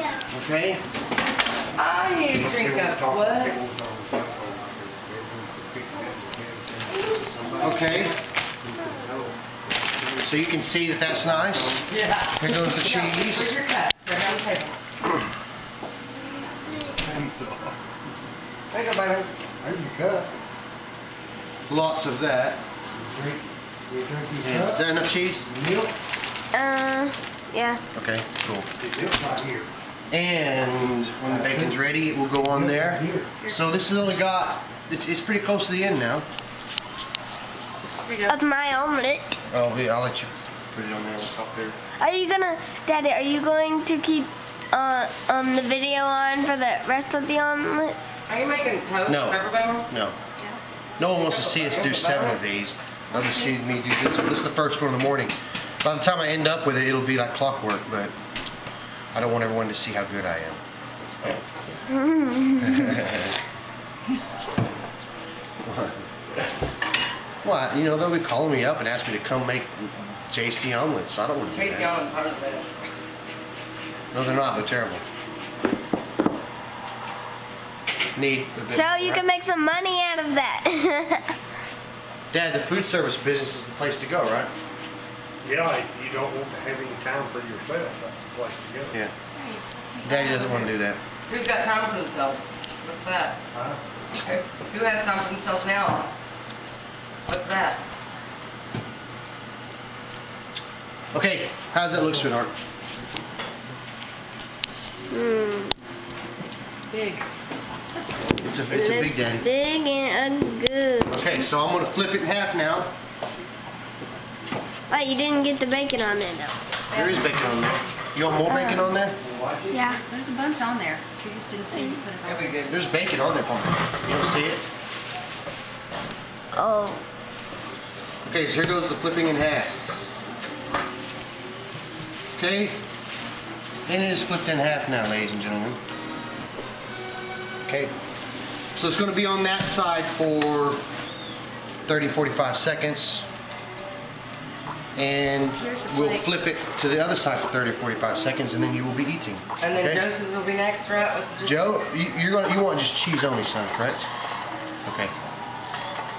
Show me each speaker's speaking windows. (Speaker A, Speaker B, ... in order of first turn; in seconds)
Speaker A: 0.3-0.8, 7.6-8.2, 10.2-11.8, 12.3-13.6, 21.7-22.6, 24.4-25.5, 27.9-28.7, 30.1-36.3, 39.5-41.8, 49.1-50.2, 51.0-58.1, 59.1-60.6, 62.6-63.4, 65.6-66.1, 67.4-71.9, 74.1-75.0, 78.2-79.3, 82.3-84.5, 90.0-91.0, 101.1-102.5, 108.4-109.5, 111.1-112.9, 116.9-119.2, 122.6-124.7, 128.3-129.7, 132.4-132.8, 133.9-135.8, 137.7-137.9, 138.7-140.9, 141.9-143.3, 145.0-150.1, 151.4-154.1, 154.8-155.1
Speaker B: 1.8-3.6, 11.9-14.8, 18.7-19.3, 38.1-38.4, 48.3-49.9, 51.2-52.4, 71.5-72.8, 91.3-93.4, 94.2-96.1, 97.3-97.8, 122.2-122.7, 149.6-151.7
Speaker C: 2.3-10.3, 11.1-11.8, 16.8-17.8, 19.6-20.3, 23.0-25.9, 28.8-29.7, 31.2-31.8, 32.4-33.4, 85.4-89.0, 93.5-93.8, 119.1-119.9
Speaker D: 26.5-27.8, 38.3-39.3, 42.0-48.2, 53.2-53.5, 61.9-63.0, 78.7-81.4, 105.1-105.8, 108.7-111.3, 114.9-116.6, 118.5-118.9, 119.7-120.0, 121.7-122.0, 126.5-127.0
Speaker E: 89.4-90.7, 106.9-107.2, 116.9-117.5, 119.9-122.5, 145.5-146.3